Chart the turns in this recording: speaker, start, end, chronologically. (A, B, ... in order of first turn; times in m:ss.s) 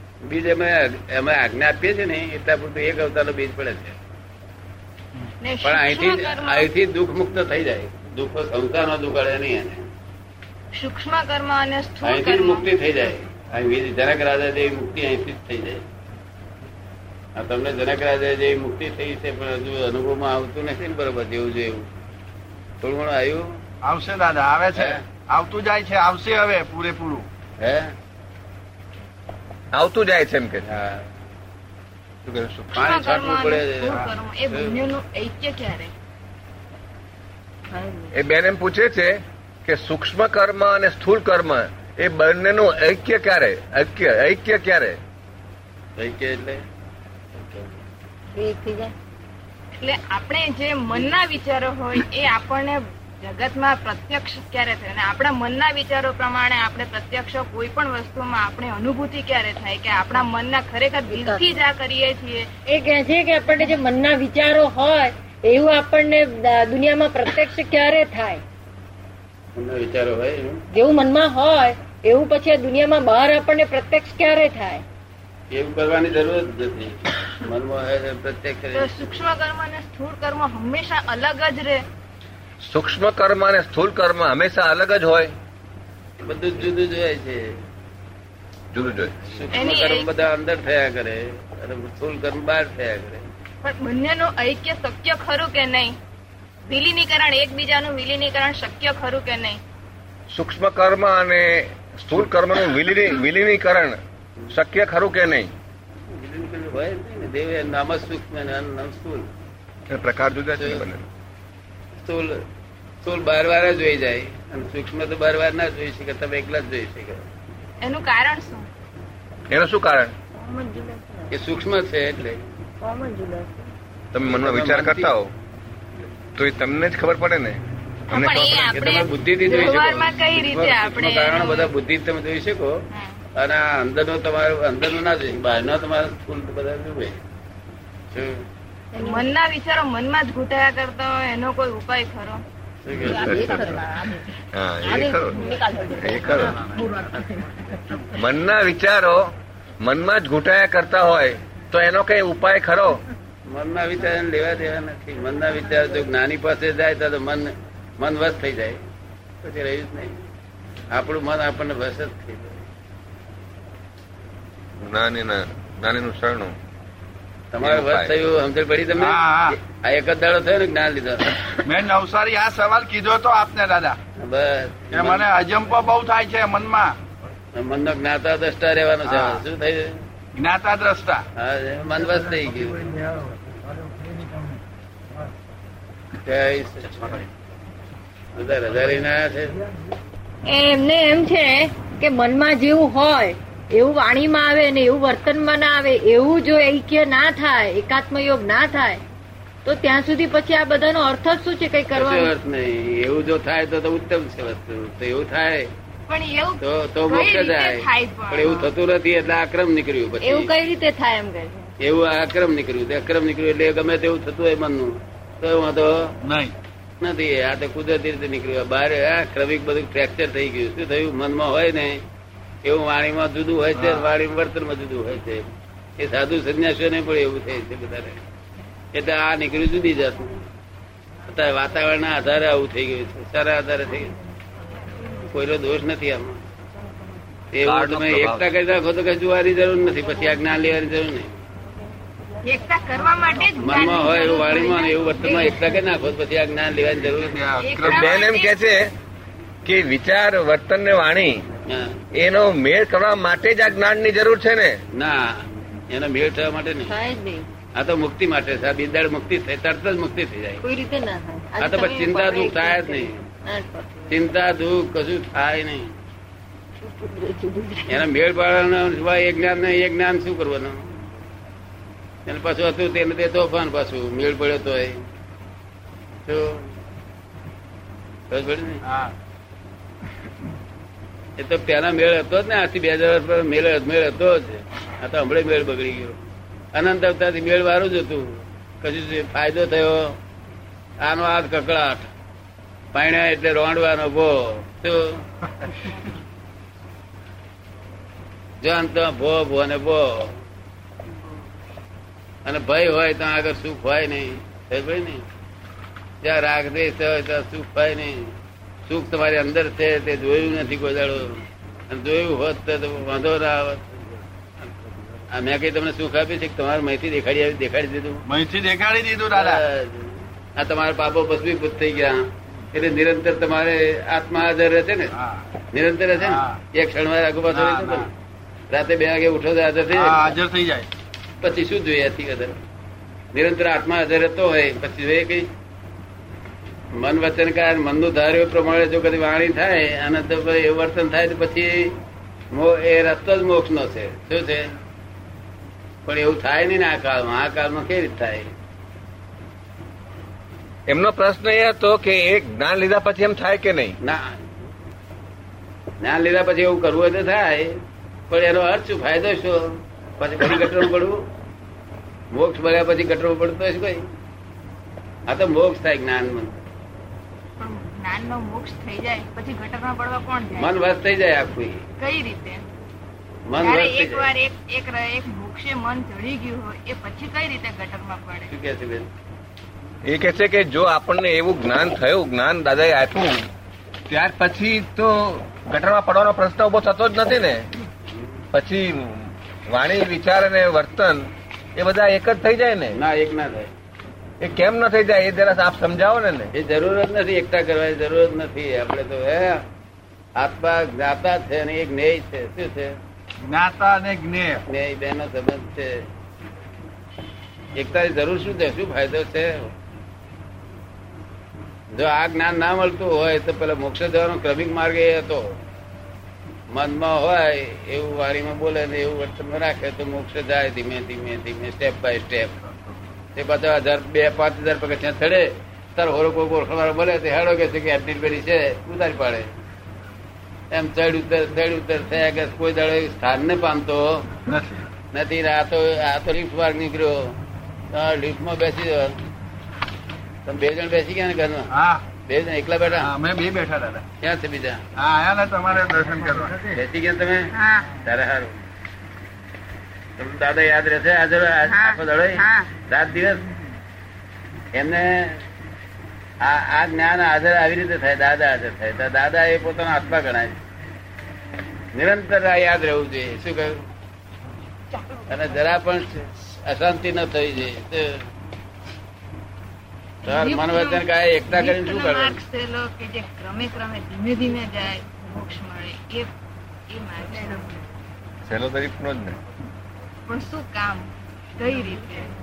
0:00.2-0:04.0 A
0:05.4-0:06.7 B
0:05.6-0:09.8 A
0:10.7-0:12.7 B
0:12.0-0:15.8 A
0:17.4-0:21.8 A
0:22.8-0:23.4 A
0:23.8-0:27.3 C
0:27.6-0:27.9 A
0:29.7-0:30.6 D
0:30.7-0:31.0 A
0:32.2-0:33.0 D
0:32.8-0:35.9 B
0:32.8-0:34.7 A
0:37.7-0:38.1 E
0:38.1-0:45.0 D
0:46.0-0:46.6 A
0:47.4-0:47.7 A
0:48.3-0:48.9 E
0:49.8-1:02.6 B
1:01.1-1:01.4 E
1:02.6-1:08.4 E
1:09.6-1:10.6 A
1:10.7-1:14.8 E
1:15.5-1:18.9 A
1:18.7-1:21.8 B
1:22.6-1:25.3 D
1:26.2-1:27.4 A
1:28.7-1:29.2 D
1:29.3-1:33.2 A
1:29.5-1:30.1 B
1:33.6-1:36.0 B
1:36.7-1:39.6 B
1:40.3-1:44.0 D
1:44.5-1:45.5 D
1:46.1-1:49.3 A
1:49.9-1:51.1 D
1:50.6-1:50.8 A
1:52.0-1:52.4 A
1:53.0-1:57.2 A
1:57.8-1:58.7 B
1:59.5-2:00.1 D
2:00.4-2:01.3 E
2:01.3-2:02.4 A
2:02.8-2:03.7 E
2:04.1-2:05.3 D
2:04.3-2:05.1 A
2:06.4-2:08.7 D
2:08.1-2:11.7 B
2:08.7-2:12.8 A
2:13.4-2:17.2 A
2:18.1-2:18.4 A
2:19.0-2:19.3 E
2:19.0-2:22.4 B
2:22.8-2:23.7 A
2:23.0-2:23.8 D
2:23.2-2:24.2 E
2:24.5-2:26.6 D
2:25.6-2:26.3 E
2:26.8-2:27.2 E
2:28.1-2:29.3 D
2:29.8-2:33.0 D
2:33.5-2:38.8 A
2:39.4-2:40.2 A
2:40.9-2:42.6 A
2:44.8-2:46.6 D
2:47.5-2:51.3 A
2:47.6-2:48.2 D
2:48.9-2:49.6 C
2:51.5-2:54.0 C
2:54.2-2:55.2 A
2:54.9-2:57.0 C
2:57.6-2:59.9 A
2:59.0-2:59.4 C
3:00.3-3:01.3 C
3:01.4-3:02.8 A
3:06.2-3:07.2 A
3:08.4-3:09.5 A
3:10.5-3:19.0 E
3:19.6-3:22.3 E
3:22.0-3:25.7 A
3:26.1-3:28.7 B
3:26.6-3:30.5 A
3:30.2-3:31.7 E
3:31.8-3:36.1 A
3:36.2-3:36.6 C
3:37.0-3:42.0 A
3:42.6-3:45.5 A
3:43.8-3:44.1 C
3:46.0-3:48.2 A
3:49.0-3:50.3 A
3:51.3-3:54.1 A
3:55.3-3:56.4 A
3:57.5-4:01.3 A
3:57.6-3:58.6 D
4:02.4-4:05.6 B
4:03.6-4:07.4 A
4:07.2-4:08.2 C
4:07.6-4:08.6 B
4:07.8-4:08.9 D
4:09.6-4:11.4 D
4:12.2-4:14.8 D
4:14.9-4:15.2 A
4:15.9-4:17.0 A
4:16.8-4:17.5 E
4:17.8-4:20.6 A
4:20.6-4:24.2 E
4:21.6-4:23.3 A
4:24.1-4:25.9 A
4:26.8-4:28.1 E
4:27.9-4:30.8 A
4:32.3-4:35.0 A
4:36.3-4:36.6 A
4:38.3-4:38.8 A
4:41.4-4:46.2 A
4:46.7-4:50.2 A
4:51.0-4:52.1 A
4:52.9-4:55.2 A
4:58.6-5:00.3 A
5:02.4-5:05.2 A
5:06.2-5:08.3 A
5:08.9-5:13.9 A
5:15.3-5:18.2 A
5:18.3-5:19.6 C
5:19.4-5:22.2 A
5:22.7-5:25.1 A
5:25.7-5:28.1 A
5:26.2-5:26.6 C
5:27.5-5:28.0 C
5:28.7-5:30.3 A
5:29.9-5:30.9 C
5:31.4-5:32.6 A
5:33.3-5:35.5 A
5:36.9-5:42.0 A
5:42.5-5:44.7 A
5:46.1-5:48.5 A
5:50.9-5:54.0 D
5:56.0-5:57.7 A
5:58.3-6:01.2 A
6:02.3-6:04.0 A
6:05.3-6:06.5 A
6:07.6-6:10.8 B
6:10.6-6:11.8 A
6:12.0-6:12.6 B
6:13.5-6:14.3 A
6:13.6-6:18.5 B
6:18.5-6:19.1 A
6:20.0-6:23.4 D
6:24.1-6:27.7 D
6:28.5-6:33.0 D
6:33.0-6:33.7 A
6:34.4-6:36.5 D
6:36.5-6:39.6 A
6:40.4-6:42.9 A
6:43.4-6:44.6 C
6:44.7-6:46.0 A
6:47.8-6:49.7 A
6:51.9-6:55.5 A
6:56.7-7:02.6 A
7:03.4-7:09.5 A
7:10.7-7:14.3 A
7:14.5-7:14.9 C
7:15.1-7:17.4 A
7:17.9-7:19.2 A
7:20.5-7:21.7 A
7:21.7-7:22.1 C
7:22.2-7:23.1 A
7:22.9-7:24.1 C
7:24.2-7:24.8 A
7:25.0-7:26.8 C
7:26.8-7:27.5 A
7:27.5-7:28.0 B
7:28.0-7:28.6 A
7:30.2-7:33.5 A
7:31.7-7:32.7 B
7:34.7-7:35.4 A
7:36.4-7:40.6 A
7:41.9-7:43.8 A
7:45.3-7:48.2 A
7:50.2-7:56.3 B
7:50.2-7:52.4 A
7:56.9-7:57.8 B
7:58.4-7:59.4 D
8:00.3-8:02.3 B